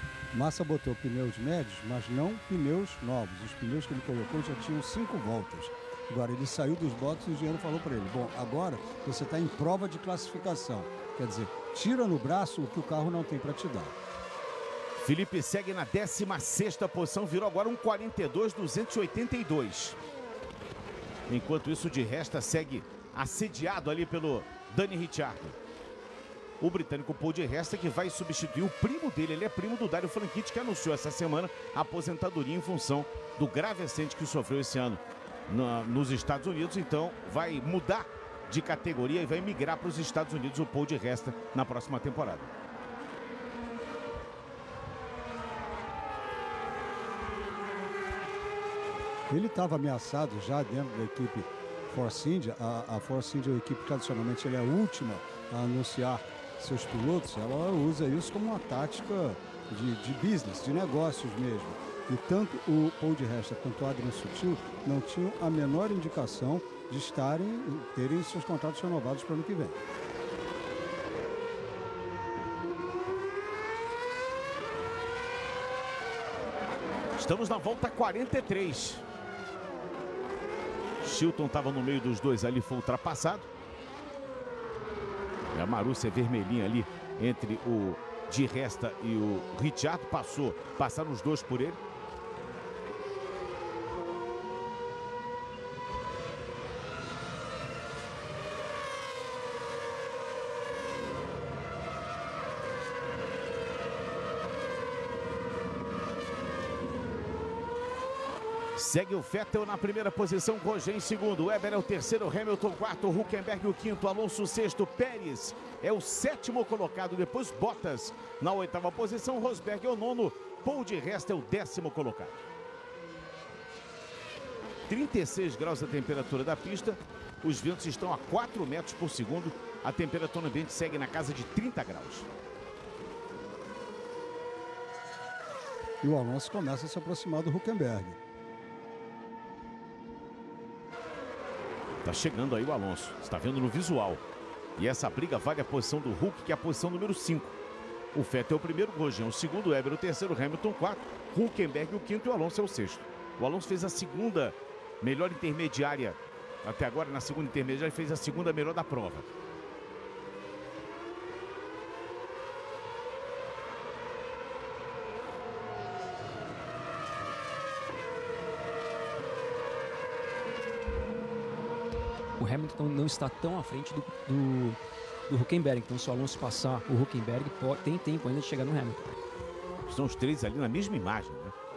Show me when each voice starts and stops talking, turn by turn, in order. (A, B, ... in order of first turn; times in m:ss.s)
0:00.3-0:13.9 A
0:15.0-0:20.0 B
0:21.3-0:25.6 B
0:26.6-0:42.5 B
0:49.3-1:09.8 A
1:17.2-1:19.0 B
1:21.0-1:23.5 B
1:25.5-1:31.8 B
1:48.8-2:02.4 B
2:04.9-2:12.3 B
2:16.0-2:18.2 A
2:22.0-2:24.2 B
2:24.8-2:27.5 B
2:28.1-2:39.3 B
2:52.4-2:59.2 C
2:59.9-3:01.5 B